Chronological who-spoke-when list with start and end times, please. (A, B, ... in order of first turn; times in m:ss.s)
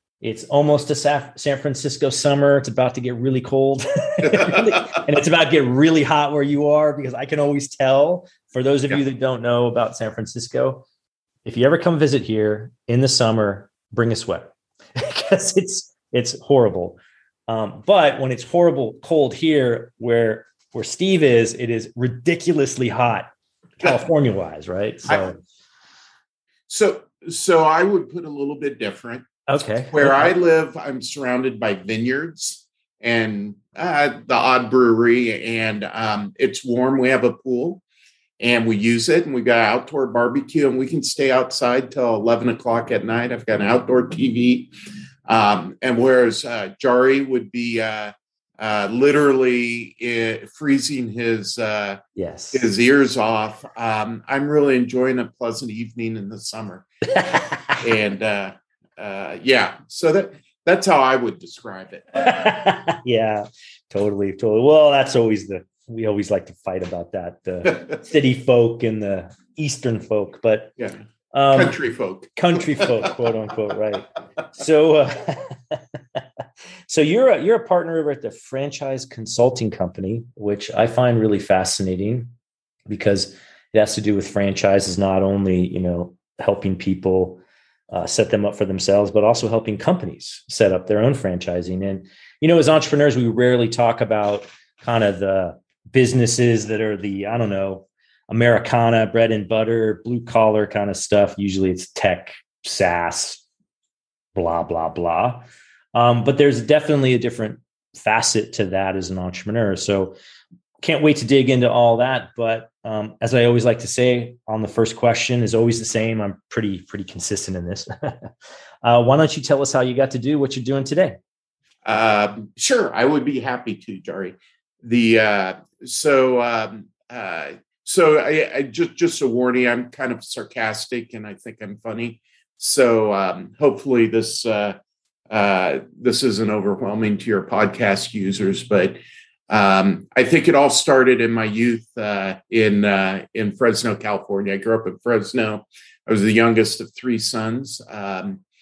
0:00.2-0:10.8 A
0:11.4-0:25.4 A
0:26.7-0:29.3 B
0:29.5-0:30.3 A
0:29.9-0:37.8 B
0:38.4-0:44.7 B
0:45.3-0:52.0 B
0:52.2-0:52.6 A
0:52.5-0:56.8 B
0:57.1-0:57.7 A
0:57.8-1:02.3 B
1:02.2-1:10.7 A
1:11.3-1:11.8 A
1:11.5-1:13.1 B
1:12.4-1:16.2 A
1:16.9-1:22.3 A
1:22.9-1:27.4 A
1:27.9-1:43.4 A
1:44.3-1:50.2 A
1:50.8-1:58.3 A
1:58.8-2:01.2 A
2:01.8-2:14.8 B
2:15.3-2:19.0 B
2:19.5-2:28.4 B